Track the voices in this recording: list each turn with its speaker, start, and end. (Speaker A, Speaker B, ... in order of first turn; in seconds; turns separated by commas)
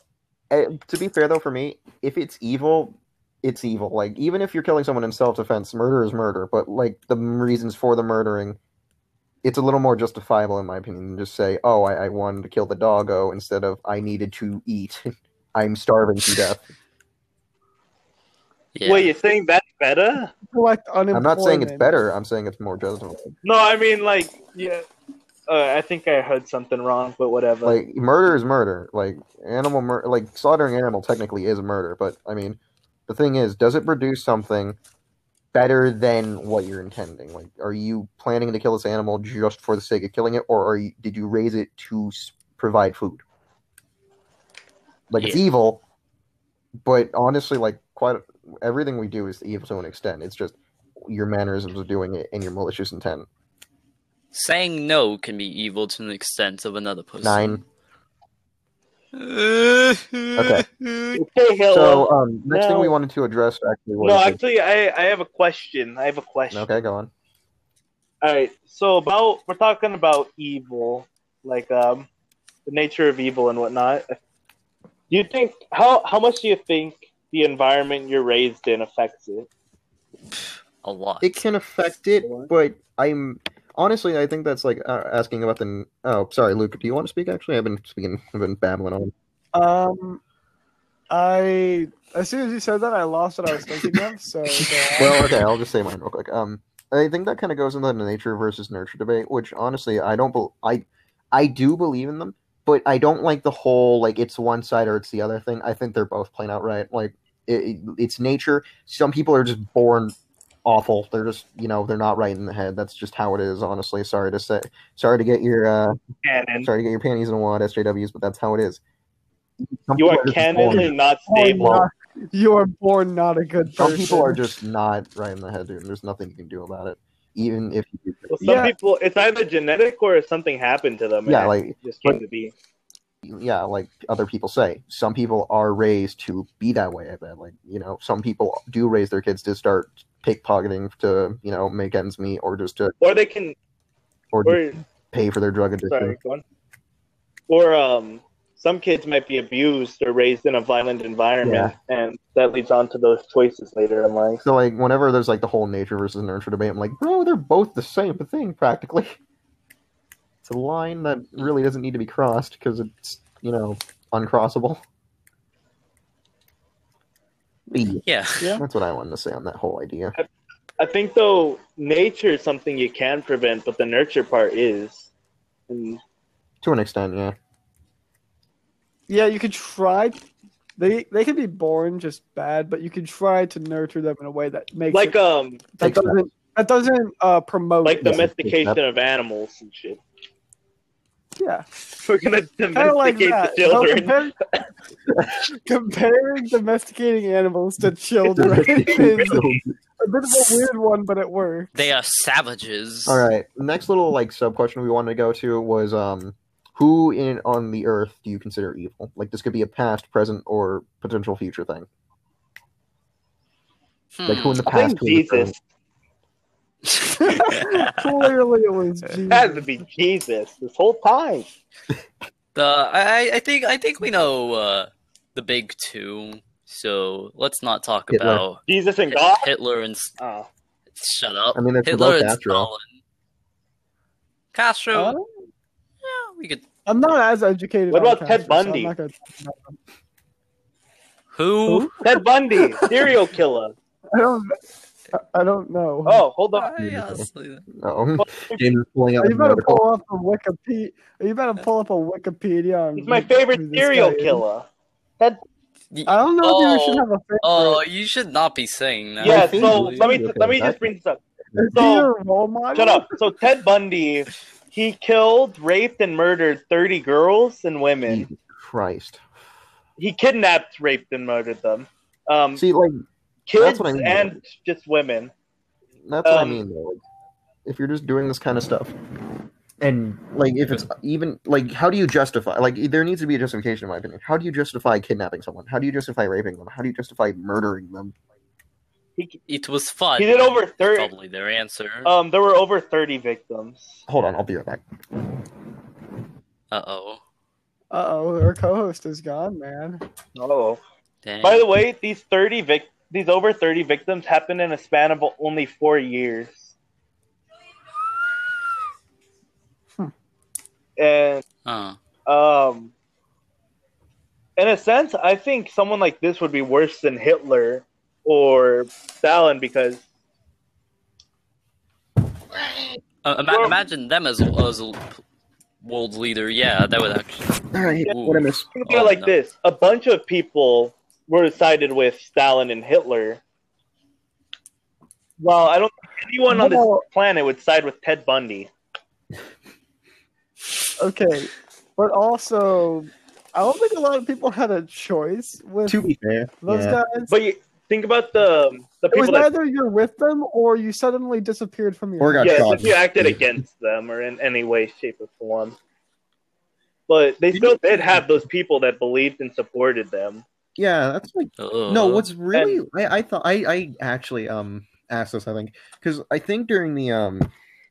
Speaker A: 0.5-8.6, Speaker A: 9.4-16.6, Speaker B: 18.8-19.1, Speaker C: 18.9-20.3, Speaker D: 20.5-22.0, Speaker A: 21.1-23.4, Speaker C: 23.4-24.9, Speaker C: 25.5-27.8, Speaker A: 27.6-34.8, Speaker A: 35.5-43.2, Speaker A: 45.1-45.8, Speaker A: 46.8-53.3, Speaker B: 54.3-57.6, Speaker A: 57.2-57.6, Speaker B: 59.1-61.2, Speaker A: 60.4-60.6, Speaker C: 61.1-62.9, Speaker A: 61.7-64.4, Speaker C: 64.0-66.7, Speaker A: 66.5-67.1, Speaker C: 68.2-72.1, Speaker C: 72.7-74.2, Speaker C: 75.1-79.5, Speaker B: 80.8-81.4, Speaker A: 81.2-89.1, Speaker C: 82.2-82.5, Speaker D: 89.5-90.2, Speaker D: 91.1-95.3, Speaker A: 95.0-116.0, Speaker C: 116.2-116.7, Speaker A: 116.6-118.8, Speaker A: 119.6-120.9, Speaker C: 120.0-121.7, Speaker D: 120.6-124.5, Speaker A: 121.6-121.9, Speaker A: 123.8-128.7, Speaker C: 128.3-132.5, Speaker D: 128.4-128.7, Speaker A: 131.3-132.2, Speaker A: 133.2-142.9, Speaker C: 143.0-143.6, Speaker A: 144.3-146.2, Speaker C: 144.4-144.8, Speaker C: 145.9-146.4, Speaker C: 147.5-154.4, Speaker A: 151.4-151.8, Speaker A: 154.4-159.2, Speaker A: 160.4-164.8, Speaker A: 167.7-168.0, Speaker B: 168.1-168.5, Speaker D: 168.4-168.6, Speaker A: 168.6-170.2, Speaker C: 170.8-175.1, Speaker C: 175.7-176.0, Speaker A: 176.6-177.4, Speaker D: 179.1-180.2, Speaker D: 180.8-185.2, Speaker C: 184.9-185.7, Speaker D: 185.7-188.2, Speaker A: 185.8-186.2, Speaker C: 187.8-190.0, Speaker A: 188.0-188.8, Speaker D: 191.4-191.7, Speaker C: 192.0-194.2, Speaker D: 192.7-194.4, Speaker D: 195.7-199.4, Speaker A: 198.3-199.8, Speaker C: 198.9-199.6, Speaker D: 200.0-201.7, Speaker B: 201.8-203.2, Speaker A: 203.1-211.9, Speaker B: 214.2-214.7, Speaker A: 214.3-215.6, Speaker C: 214.7-215.6, Speaker D: 217.2-219.7, Speaker B: 217.2-217.9, Speaker C: 219.3-221.5, Speaker B: 222.6-230.2, Speaker A: 228.1-228.4, Speaker C: 228.7-229.5, Speaker C: 230.2-230.5, Speaker B: 230.9-232.9, Speaker A: 231.6-232.7, Speaker B: 234.5-235.2, Speaker D: 234.9-235.2, Speaker B: 236.0-236.7, Speaker D: 236.9-239.8, Speaker C: 237.9-238.9, Speaker B: 241.3-242.0, Speaker D: 241.7-242.1, Speaker C: 242.0-243.8, Speaker D: 244.1-244.6, Speaker D: 245.1-246.2, Speaker C: 246.1-246.7, Speaker B: 246.6-247.7, Speaker A: 246.8-249.8, Speaker C: 248.2-248.7, Speaker D: 249.2-254.4, Speaker C: 253.0-254.7, Speaker B: 255.9-260.1, Speaker D: 256.1-257.8, Speaker C: 259.2-261.2, Speaker A: 259.2-260.8, Speaker D: 261.6-263.2, Speaker C: 261.7-262.1, Speaker C: 262.8-268.3, Speaker A: 268.1-269.2, Speaker C: 270.0-272.6, Speaker A: 272.6-273.0, Speaker C: 273.5-275.3, Speaker A: 273.6-274.4, Speaker A: 276.0-277.0, Speaker C: 276.2-276.6, Speaker A: 277.7-278.9, Speaker A: 279.8-288.1, Speaker B: 289.5-292.1, Speaker C: 290.2-291.1, Speaker C: 292.1-294.0, Speaker A: 294.1-294.8, Speaker B: 296.7-297.2, Speaker D: 297.9-300.0, Speaker C: 300.4-300.8, Speaker B: 301.2-301.7, Speaker C: 301.4-306.7, Speaker C: 311.0-311.4, Speaker B: 311.6-312.0, Speaker C: 312.3-312.9, Speaker C: 314.6-320.0, Speaker B: 323.2-325.2, Speaker C: 323.5-323.8, Speaker B: 325.8-329.4, Speaker A: 327.7-328.7, Speaker C: 328.8-333.4, Speaker C: 335.4-338.7, Speaker D: 336.5-337.0, Speaker D: 341.0-346.0, Speaker A: 345.9-347.0, Speaker D: 346.6-347.3, Speaker C: 347.3-349.5, Speaker D: 349.1-352.8, Speaker A: 352.2-353.6, Speaker C: 352.4-355.8, Speaker C: 357.1-360.4, Speaker A: 357.5-358.4, Speaker A: 360.8-367.5, Speaker B: 361.6-362.3, Speaker C: 362.5-362.8